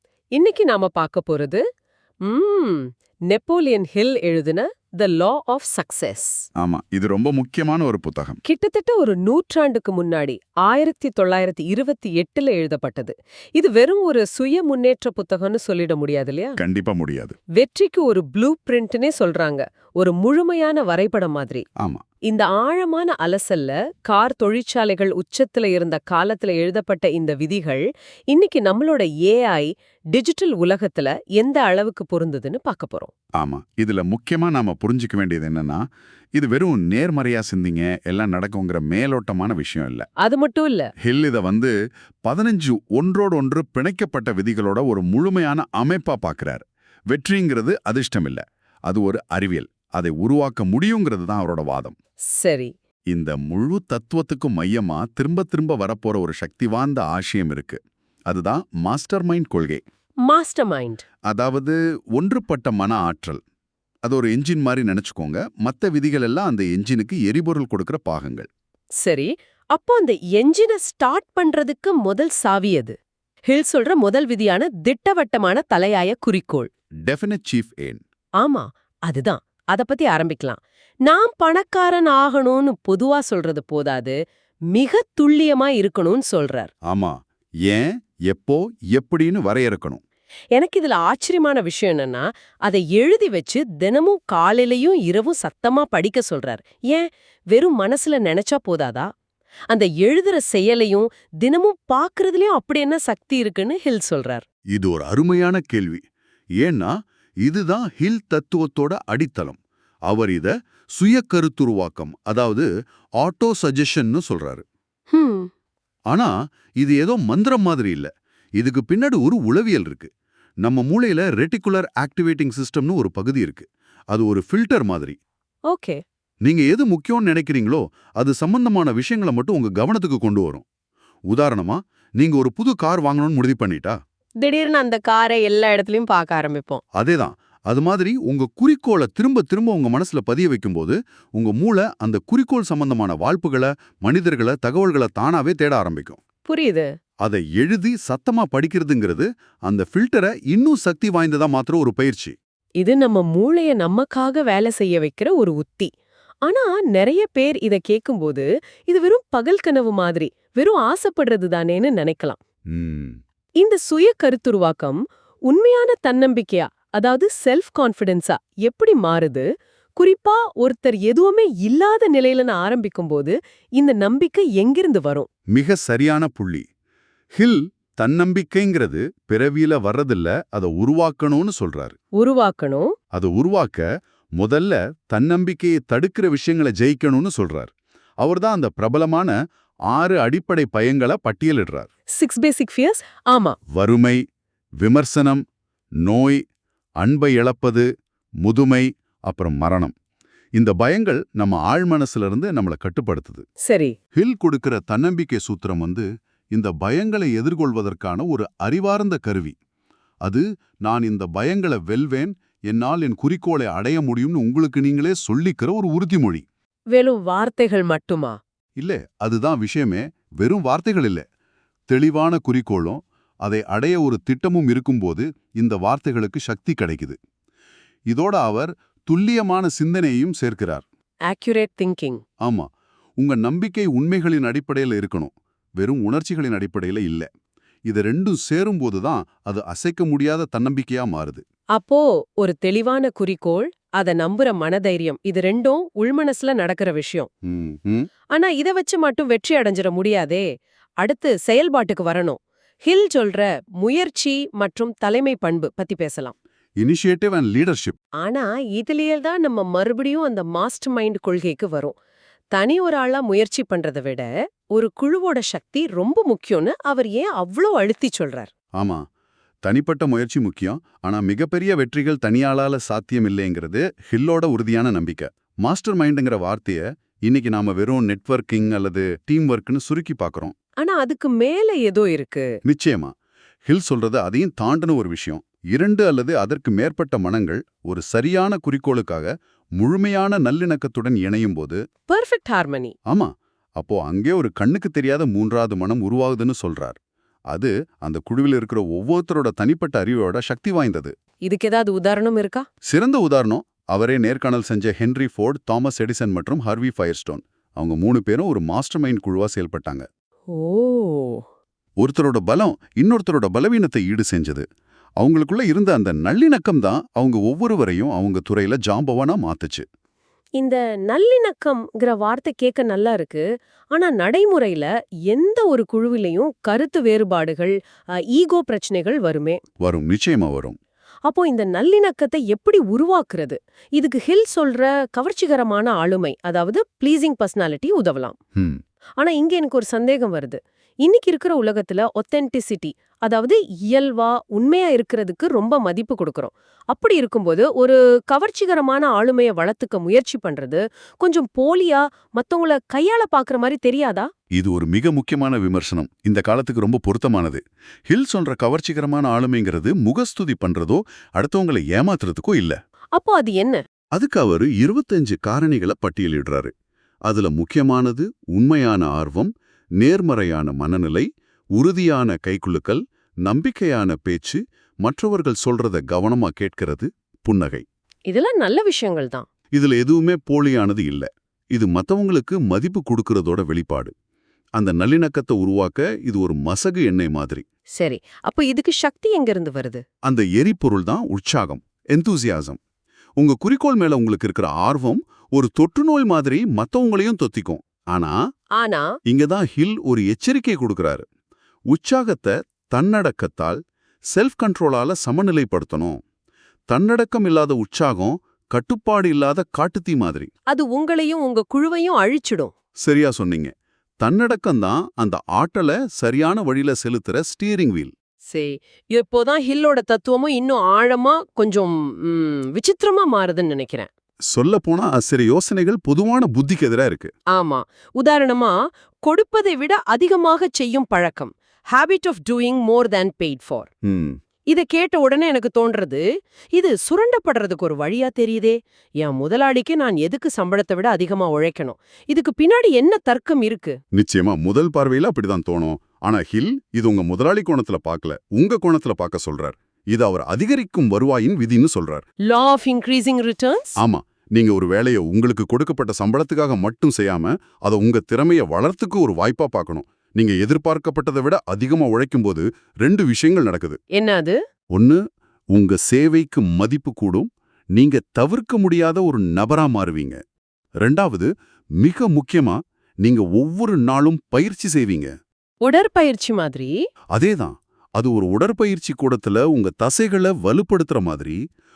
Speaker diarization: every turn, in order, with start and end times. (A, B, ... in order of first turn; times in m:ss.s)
0:00.3-0:01.6 A
0:02.2-0:06.4 A
0:06.6-0:08.4 B
0:08.4-0:16.6 A
0:16.6-0:17.4 B
0:17.5-0:21.6 A
0:22.3-0:33.1 A
0:33.4-0:35.8 B
0:36.3-0:40.1 B
0:40.2-0:40.9 A
0:41.0-0:41.7 B
0:42.2-0:51.9 B
0:52.3-0:52.7 A
0:53.1-0:59.8 B
1:00.2-1:01.0 A
1:01.3-1:03.4 B
1:04.0-1:08.5 B
1:09.0-1:12.9 A
1:13.5-1:16.7 A
1:17.1-1:18.0 B
1:18.4-1:24.1 A
1:24.7-1:26.7 A
1:26.8-1:30.0 B
1:30.5-1:39.1 A
1:39.7-1:44.4 A
1:44.7-1:46.0 B
1:46.6-1:46.9 B
1:47.4-1:52.7 B
1:53.2-1:54.6 B
1:55.1-1:55.5 A
1:56.1-2:00.1 B
2:00.6-2:05.2 B
2:05.7-2:06.0 A
2:06.4-2:10.6 B
2:11.3-2:14.0 B
2:14.4-2:16.8 A
2:16.9-2:26.2 B
2:26.4-2:26.9 A
2:27.2-2:32.4 B
2:32.8-2:35.9 A
2:36.4-2:42.4 A
2:42.7-2:43.2 B
2:43.6-2:55.3 A
2:55.5-2:56.6 B
2:57.3-3:02.0 B
3:02.2-3:02.9 A
3:03.1-3:03.8 B
3:04.4-3:09.3 B
3:09.9-3:11.9 B
3:12.2-3:13.6 A
3:13.7-3:14.2 B
3:14.8-3:15.4 B
3:16.0-3:16.4 B
3:17.0-3:17.8 B
3:18.4-3:19.9 B
3:20.5-3:23.4 B
3:23.6-3:23.9 A
3:24.1-3:29.5 B
3:30.2-3:36.4 B
3:36.9-3:38.4 A
3:38.8-3:41.2 B
3:41.9-3:47.2 B
3:48.1-3:50.8 B
3:51.3-3:52.2 A
3:53.2-3:57.3 B
3:57.9-4:01.4 B
4:01.7-4:07.3 A
4:07.4-4:08.1 B
4:08.3-4:10.4 A
4:11.0-4:16.3 A
4:16.8-4:18.0 B
4:18.2-4:22.0 A
4:22.5-4:28.5 A
4:28.8-4:29.0 B
4:29.6-4:40.5 B
4:40.8-4:42.5 A
4:42.6-4:43.1 B
4:43.6-4:51.8 B
4:52.1-4:52.9 A
4:53.1-4:57.0 B
4:57.5-5:01.1 B
5:01.4-5:02.6 A
5:02.9-5:10.0 B
5:10.5-5:11.4 A
5:12.0-5:14.6 B
5:15.2-5:19.8 B
5:20.6-5:27.8 A
5:28.3-5:29.6 A
5:29.8-5:30.8 B
5:31.3-5:38.4 A
5:39.2-5:54.3 A
5:54.5-6:02.8 B
6:03.2-6:03.8 A
6:04.1-6:06.7 B
6:07.2-6:17.8 B
6:18.3-6:19.5 A
6:19.7-6:24.1 B
6:24.8-6:27.6 B
6:28.0-6:30.0 A
6:30.2-6:32.8 B
6:33.4-6:38.3 B
6:38.8-6:39.1 A
6:39.2-6:41.2 B
6:41.9-6:43.8 B
6:44.3-6:46.2 B
6:46.9-6:50.5 B
6:50.7-6:52.7 A
6:53.0-6:58.1 B
6:58.5-7:04.1 A
7:04.5-7:07.3 B
7:07.5-7:13.9 A
7:14.0-7:14.4 B
7:14.7-7:16.2 A
7:16.7-7:24.0 A
7:24.1-7:32.2 B
7:32.5-7:33.9 A
7:34.0-7:44.0 B
7:44.1-7:44.6 A
7:44.9-7:45.2 B
7:45.7-7:50.4 B
7:51.0-7:51.5 B
7:52.0-7:55.3 B
7:55.8-7:56.9 A
7:57.3-8:01.6 B